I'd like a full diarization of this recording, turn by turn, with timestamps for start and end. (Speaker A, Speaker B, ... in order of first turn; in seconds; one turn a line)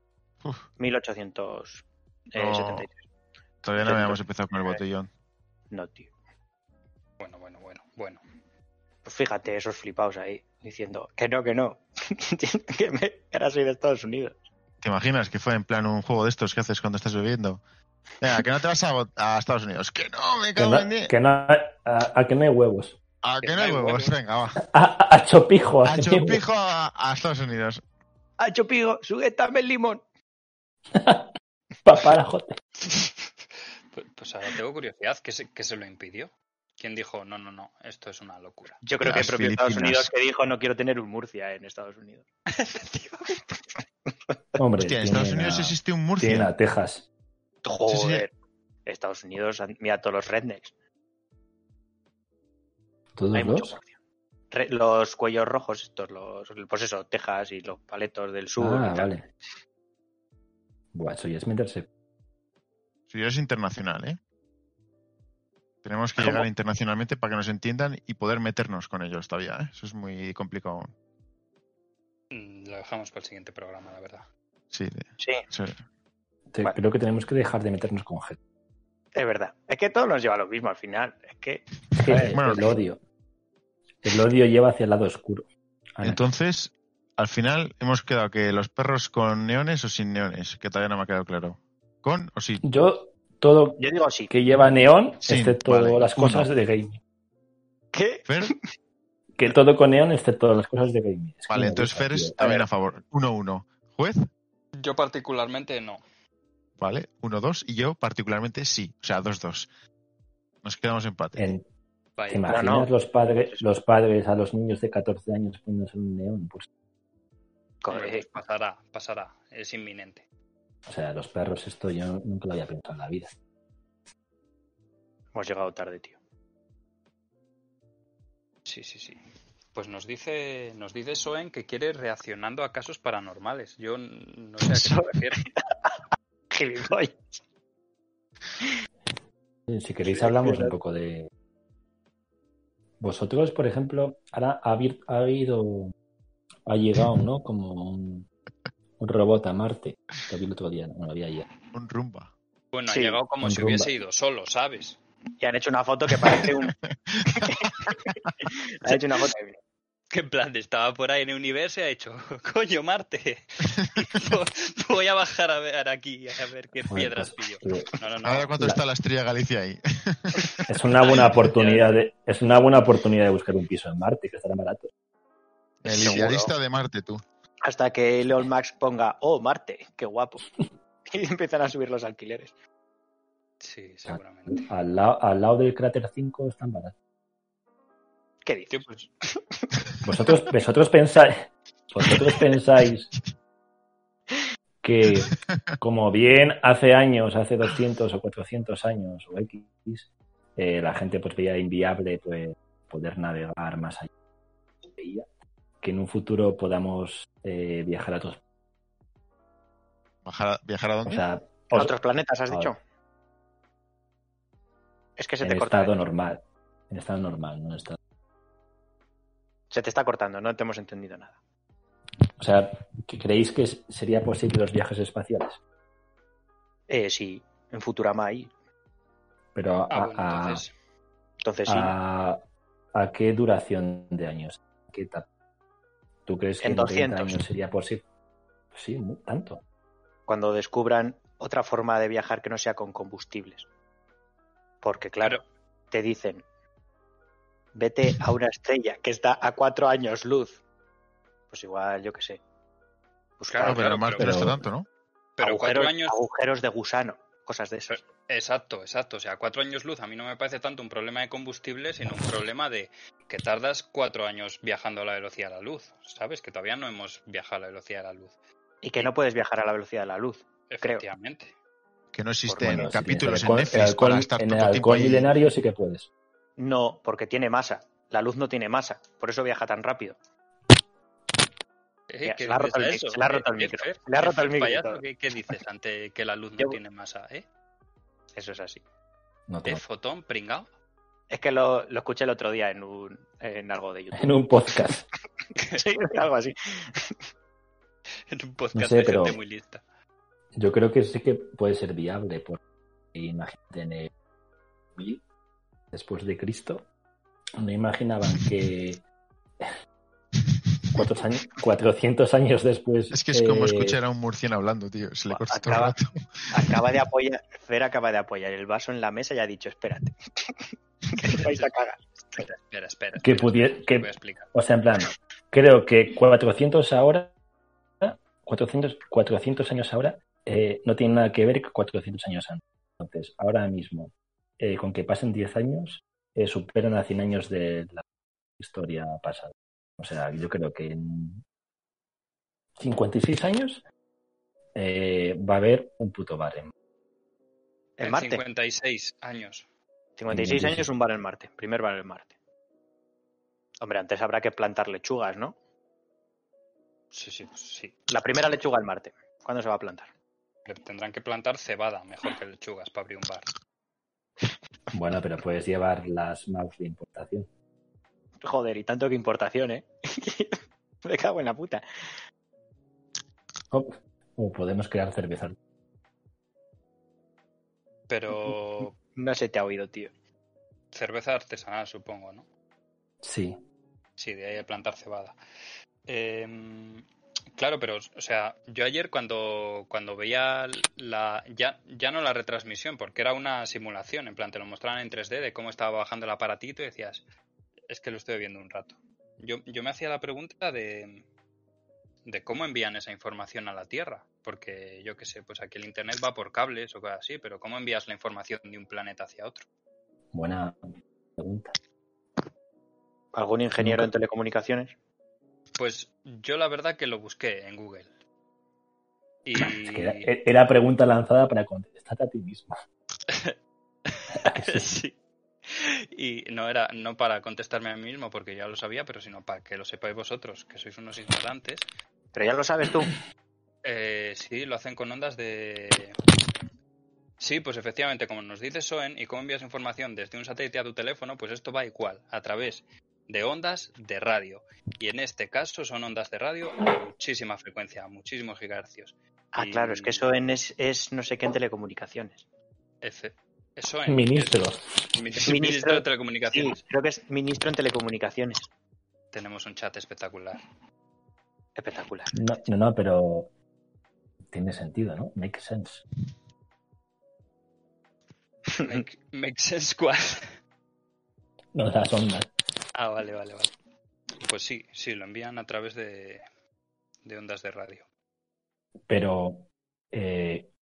Speaker A: 0.8-3.0
Speaker B: 2.4-2.9
Speaker B: 3.6-5.1
Speaker A: 3.8-4.8
Speaker A: 5.7-6.1
Speaker C: 7.2-8.2
Speaker A: 9.1-14.4
Speaker B: 14.8-17.6
Speaker B: 18.2-21.1
Speaker D: 20.6-23.0
Speaker B: 23.2-24.6
Speaker C: 23.4-24.1
Speaker D: 24.6-26.4
Speaker B: 25.9-27.8
Speaker A: 28.4-30.0
Speaker D: 30.9-31.3
Speaker D: 31.8-32.6
Speaker C: 32.8-33.3
Speaker C: 33.9-38.8
Speaker A: 38.8-42.2
Speaker B: 39.0-40.1
Speaker C: 42.5-43.4
Speaker D: 44.6-47.1
Speaker B: 44.8-46.5
Speaker A: 47.6-48.3
Speaker B: 47.9-48.3
Speaker A: 48.9-50.7
Speaker D: 53.2-53.7
Speaker A: 53.3-54.0
Speaker A: 54.5-59.1
Speaker D: 58.6-59.3
Speaker D: 60.9-61.9
Speaker B: 63.1-64.2
Speaker B: 65.8-70.9
Speaker A: 66.2-66.5
Speaker C: 72.3-74.3
Speaker B: 74.7-75.8
Speaker A: 75.2-75.5
Speaker D: 76.5-78.4
Speaker A: 79.2-82.7
Speaker D: 82.0-83.0
Speaker B: 82.3-82.8
Speaker D: 84.0-86.2
Speaker B: 86.0-92.6
Speaker D: 92.6-97.0
Speaker A: 93.8-94.3
Speaker B: 95.2-96.5
Speaker A: 97.9-98.6
Speaker B: 98.3-98.5
Speaker D: 99.4-102.4
Speaker B: 101.5-104.3
Speaker A: 102.4-102.7
Speaker C: 104.8-106.0
Speaker B: 106.8-109.7
Speaker B: 110.6-111.5
Speaker D: 111.4-111.7
Speaker C: 112.2-112.5
Speaker D: 112.3-116.7
Speaker A: 112.5-112.9
Speaker A: 117.8-118.2
Speaker C: 117.9-120.2
Speaker D: 120.9-123.3
Speaker A: 125.3-126.2
Speaker C: 128.7-129.2
Speaker C: 129.7-135.4
Speaker A: 134.6-136.0
Speaker A: 136.5-137.3
Speaker D: 139.7-141.3
Speaker A: 140.1-140.8
Speaker D: 143.0-145.9
Speaker D: 146.7-148.3
Speaker D: 149.0-151.5
Speaker B: 151.7-152.3
Speaker C: 152.7-155.0
Speaker A: 152.9-153.2
Speaker D: 153.4-153.9
Speaker A: 155.4-156.7
Speaker B: 156.7-158.1
Speaker A: 157.3-159.6
Speaker C: 160.1-168.6
Speaker B: 163.8-164.3
Speaker D: 166.9-167.9
Speaker B: 168.2-170.5
Speaker D: 170.7-174.9
Speaker C: 171.0-171.9
Speaker B: 175.8-177.2
Speaker A: 175.8-176.5
Speaker A: 177.6-180.5
Speaker A: 181.1-182.5
Speaker C: 183.6-184.7
Speaker D: 184.1-186.9
Speaker A: 188.4-188.8
Speaker C: 188.7-189.1
Speaker D: 190.0-193.1
Speaker D: 194.8-204.1
Speaker D: 204.9-205.3
Speaker D: 205.8-208.4
Speaker B: 210.2-211.2
Speaker D: 211.1-211.9
Speaker A: 211.7-212.8
Speaker A: 215.2-216.0
Speaker D: 215.4-218.0
Speaker A: 219.7-221.4
Speaker D: 222.4-225.6
Speaker A: 226.9-228.5
Speaker D: 229.6-230.6
Speaker C: 229.9-230.7
Speaker A: 231.4-231.9
Speaker D: 231.7-232.4
Speaker D: 232.9-235.3
Speaker D: 236.3-238.0
Speaker A: 236.6-237.4
Speaker D: 238.7-239.6
Speaker A: 240.3-243.7
Speaker A: 244.8-246.4
Speaker A: 247.7-250.6
Speaker A: 251.5-252.4
Speaker A: 253.4-254.0
Speaker C: 253.5-254.5
Speaker B: 253.6-254.9
Speaker D: 254.2-254.6
Speaker C: 255.4-256.2
Speaker A: 255.4-258.0
Speaker C: 257.9-268.4
Speaker A: 268.8-271.1
Speaker C: 270.7-271.5
Speaker B: 272.1-275.3
Speaker A: 272.5-272.9
Speaker D: 272.6-276.1
Speaker A: 276.6-280.2
Speaker C: 282.1-287.5
Speaker A: 282.2-285.0
Speaker A: 288.4-288.8
Speaker D: 289.5-289.8
Speaker C: 289.6-290.7
Speaker A: 291.3-294.4
Speaker D: 294.1-295.1
Speaker A: 295.7-297.2
Speaker C: 298.3-299.8
Speaker D: 298.7-299.4
Speaker D: 300.6-302.6
Speaker D: 303.1-304.1
Speaker D: 305.0-305.2
Speaker D: 305.9-306.9
Speaker D: 307.6-309.0
Speaker D: 310.9-314.0
Speaker B: 313.1-316.8
Speaker A: 315.3-315.9
Speaker A: 316.5-322.4
Speaker C: 321.2-321.7
Speaker C: 322.3-324.5
Speaker D: 323.2-327.4
Speaker D: 328.0-338.0
Speaker D: 338.6-341.4
Speaker D: 342.8-343.8
Speaker D: 344.8-346.7
Speaker A: 348.0-348.4
Speaker C: 348.0-349.7
Speaker A: 350.2-352.3
Speaker D: 350.3-350.9
Speaker A: 353.8-355.6
Speaker C: 357.1-358.0
Speaker A: 358.1-360.1
Speaker C: 360.7-363.5
Speaker D: 364.9-367.5
Speaker A: 368.4-371.8
Speaker D: 373.7-375.6
Speaker C: 378.1-378.9
Speaker A: 379.1-380.1
Speaker C: 380.9-382.5
Speaker D: 383.2-383.6
Speaker C: 384.2-385.4
Speaker C: 386.1-397.2
Speaker C: 397.9-401.3
Speaker C: 402.2-409.7
Speaker D: 410.3-410.8
Speaker D: 411.4-411.7
Speaker A: 413.3-414.9
Speaker D: 413.8-414.1
Speaker C: 415.8-418.1
Speaker C: 419.4-420.3
Speaker D: 419.6-422.8
Speaker C: 423.3-423.6
Speaker C: 424.1-431.9
Speaker D: 424.3-424.9
Speaker A: 432.4-433.1
Speaker C: 433.8-436.2
Speaker C: 437.4-450.3
Speaker A: 449.5-452.4
Speaker C: 453.0-456.8
Speaker D: 454.1-454.9
Speaker A: 455.4-458.7
Speaker C: 459.3-460.6
Speaker A: 461.8-462.4
Speaker D: 462.3-463.5
Speaker D: 464.5-466.0
Speaker A: 468.8-469.0
Speaker C: 468.8-470.5
Speaker D: 471.7-472.5
Speaker C: 472.9-473.7
Speaker C: 474.4-476.4
Speaker C: 477.2-478.1
Speaker D: 479.1-480.7